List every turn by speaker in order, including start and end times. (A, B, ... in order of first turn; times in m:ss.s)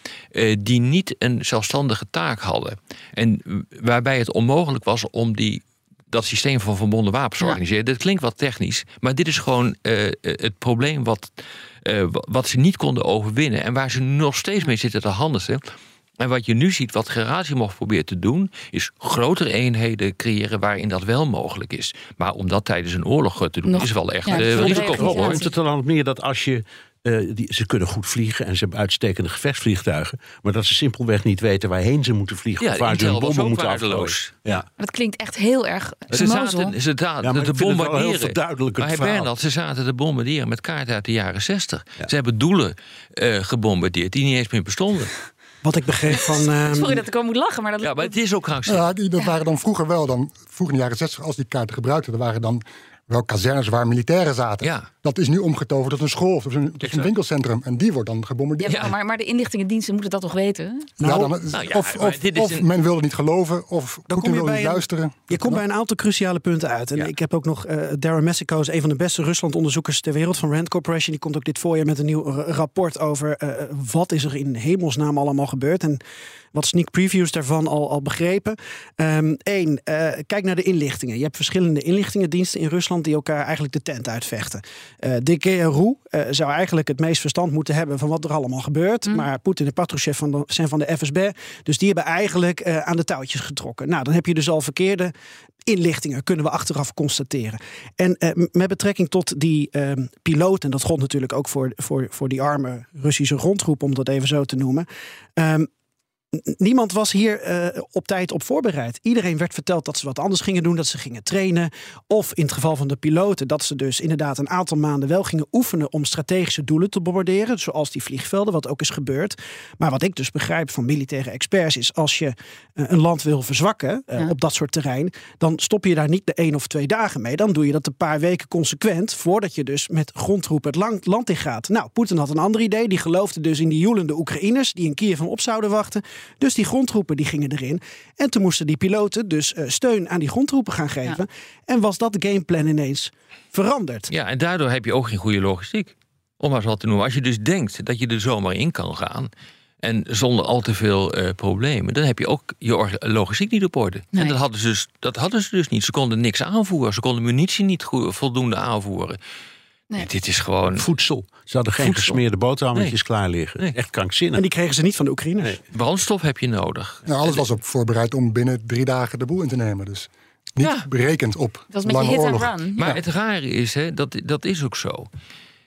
0:00.3-0:15.6 A
0:16.2-0:25.4 A
0:23.7-0:25.5 B
0:24.3-0:34.6 C
0:32.6-0:34.4 A
0:34.8-0:36.7 B
0:36.1-0:45.1 A
0:37.2-0:39.3 C
0:45.6-0:47.0 D
0:46.6-0:48.1 B
0:47.8-0:48.8 A
0:48.6-0:58.9 E
0:56.8-0:57.1 A
0:58.6-1:00.9 B
1:01.0-1:01.3 D
1:01.0-1:05.6 E
1:01.5-1:02.6 A
1:04.1-1:16.0 D
1:16.5-1:35.1 D
1:35.6-1:45.7 D
1:46.4-2:24.1 D
2:24.1-2:29.3 A
2:29.8-2:39.2 A
2:40.0-2:40.9 A
2:40.8-2:44.4 C
2:41.8-2:42.2 A
2:44.3-2:45.6 D
2:45.7-2:47.4 A
2:47.0-2:52.5 E
2:50.6-2:50.8 A
2:51.7-2:52.8 B
2:52.8-2:55.1 A